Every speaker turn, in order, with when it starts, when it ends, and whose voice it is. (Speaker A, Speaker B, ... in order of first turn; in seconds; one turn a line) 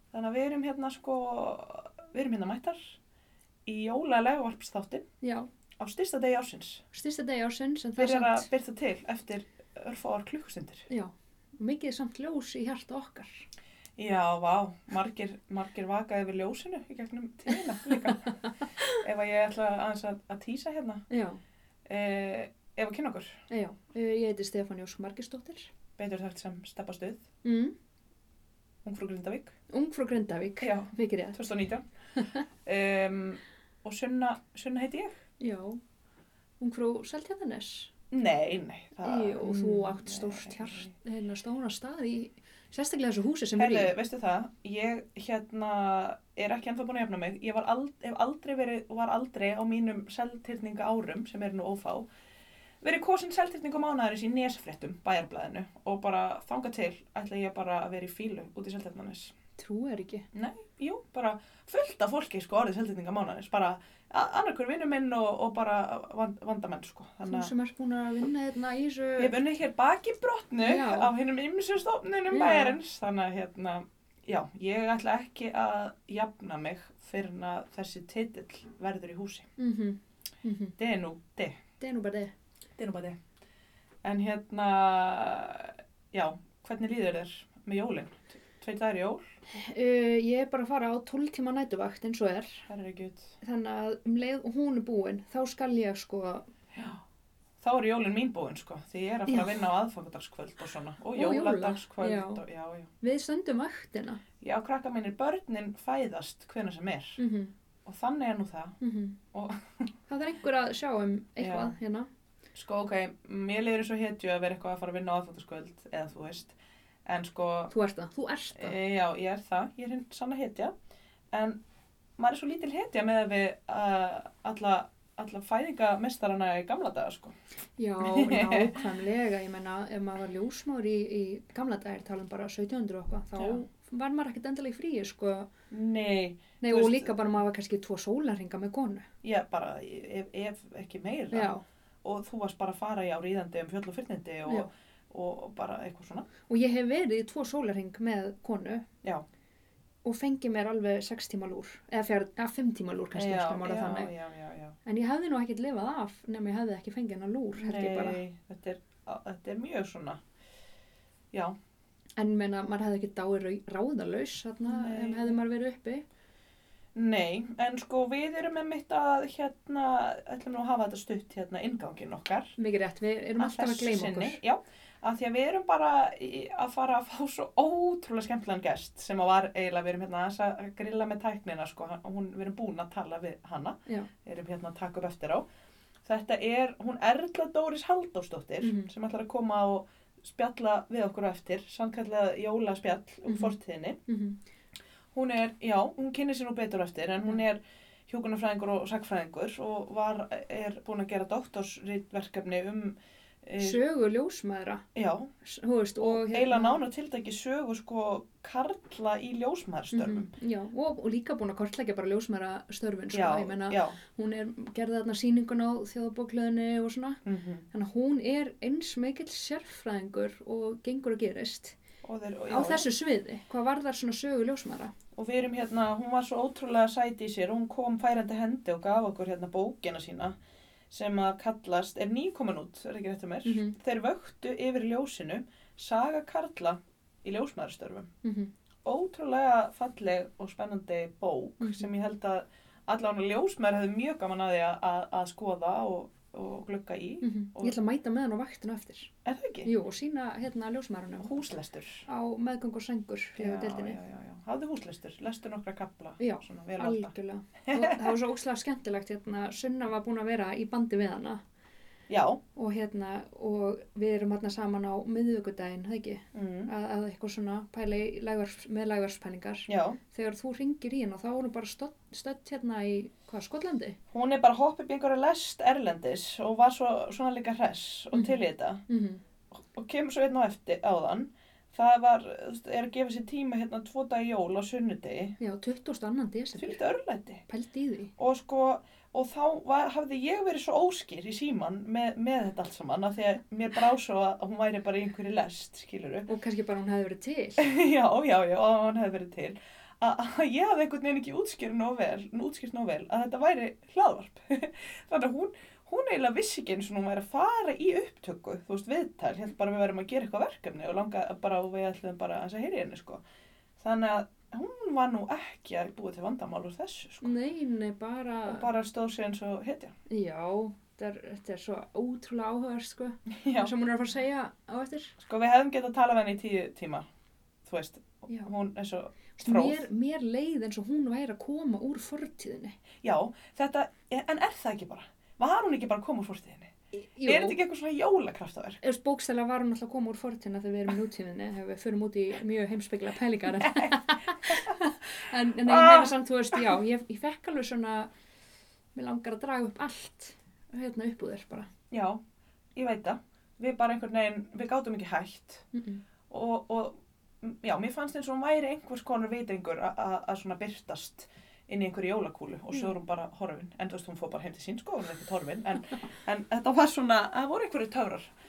Speaker A: 0.1-2.9
Speaker A: 3.6-5.0
Speaker B: 5.2-5.5
Speaker A: 5.8-6.8
Speaker B: 6.9-8.5
Speaker A: 8.0-10.9
Speaker B: 10.9-13.5
Speaker A: 14.0-21.0
Speaker B: 17.9-18.2
Speaker B: 21.1-21.4
Speaker A: 21.9-23.4
Speaker B: 23.5-25.7
Speaker A: 26.0-27.2
Speaker B: 27.4-27.7
Speaker A: 28.8-29.5
Speaker B: 29.7-31.4
Speaker A: 30.6-31.8
Speaker A: 32.6-35.2
Speaker B: 35.4-35.8
Speaker B: 36.6-37.9
Speaker A: 38.1-40.9
Speaker B: 39.0-43.9
Speaker A: 43.6-52.0
Speaker A: 52.8-59.3
Speaker B: 59.6-60.2
Speaker A: 60.3-67.5
Speaker B: 67.2-69.3
Speaker A: 69.2-79.5
Speaker B: 70.6-71.1
Speaker B: 72.3-72.8
Speaker B: 79.6-80.7
Speaker A: 80.8-81.5
Speaker B: 81.8-82.3
Speaker A: 82.8-83.2
Speaker A: 84.0-89.2
Speaker B: 89.5-92.6
Speaker A: 92.7-93.3
Speaker B: 93.4-96.5
Speaker A: 96.7-97.0
Speaker A: 97.6-102.9
Speaker B: 99.3-99.6
Speaker B: 101.2-102.4
Speaker B: 103.0-104.2
Speaker A: 104.4-107.2
Speaker B: 107.2-107.5
Speaker A: 107.8-108.8
Speaker B: 108.8-109.2
Speaker A: 109.3-109.9
Speaker B: 110.1-112.1
Speaker A: 111.4-111.8
Speaker A: 112.5-117.7
Speaker B: 117.7-118.8
Speaker A: 118.5-120.7
Speaker A: 121.3-121.6
Speaker A: 122.2-127.3
Speaker B: 127.8-135.5
Speaker A: 128.0-128.8
Speaker A: 133.4-133.6
Speaker A: 135.7-137.1
Speaker B: 136.6-139.1
Speaker A: 139.2-146.3
Speaker B: 141.3-141.6
Speaker B: 146.5-148.8
Speaker B: 150.0-154.1
Speaker A: 153.1-154.8
Speaker B: 154.8-158.2
Speaker A: 157.6-160.2
Speaker A: 161.3-161.6
Speaker B: 162.2-166.0
Speaker A: 164.6-165.4
Speaker A: 166.9-172.6
Speaker B: 172.6-174.4
Speaker A: 173.4-185.4
Speaker A: 186.0-194.0
Speaker B: 188.6-188.9
Speaker B: 193.2-193.6
Speaker B: 194.1-194.4
Speaker A: 195.1-203.8
Speaker B: 203.6-204.8
Speaker A: 204.9-205.3
Speaker B: 205.4-206.8
Speaker A: 206.0-210.3
Speaker B: 209.9-217.2
Speaker A: 213.1-214.0
Speaker A: 217.2-217.7
Speaker B: 217.7-221.8
Speaker A: 222.0-222.9
Speaker B: 222.5-224.9
Speaker A: 225.2-230.3
Speaker A: 230.9-238.1
Speaker B: 233.4-233.7
Speaker B: 238.2-238.5
Speaker A: 238.8-247.8
Speaker B: 241.6-241.9
Speaker B: 247.2-249.1
Speaker A: 249.2-249.7
Speaker B: 249.7-251.3
Speaker A: 251.2-252.0
Speaker B: 252.1-254.0
Speaker A: 253.4-257.1
Speaker B: 256.2-261.4
Speaker A: 257.7-258.1
Speaker A: 262.1-262.4
Speaker B: 262.6-274.0
Speaker A: 266.3-266.7
Speaker A: 269.7-270.0
Speaker A: 274.1-278.8
Speaker B: 278.1-279.2
Speaker A: 279.5-285.4
Speaker B: 285.4-286.8
Speaker A: 286.6-287.4
Speaker B: 287.5-288.1
Speaker A: 288.2-296.3
Speaker B: 296.3-297.6
Speaker A: 297.6-313.2
Speaker A: 313.8-317.3
Speaker B: 317.2-318.7
Speaker A: 318.4-319.9
Speaker B: 320.1-325.1
Speaker A: 323.4-323.7
Speaker A: 325.2-327.1
Speaker A: 327.6-329.9
Speaker B: 329.4-332.8
Speaker A: 333.0-336.7
Speaker B: 336.9-337.6
Speaker A: 337.2-338.8
Speaker B: 338.8-348.1
Speaker A: 343.6-344.9
Speaker A: 345.6-346.8
Speaker B: 348.9-351.7
Speaker A: 351.9-352.2
Speaker A: 352.8-355.6
Speaker B: 355.7-356.0
Speaker A: 356.3-368.3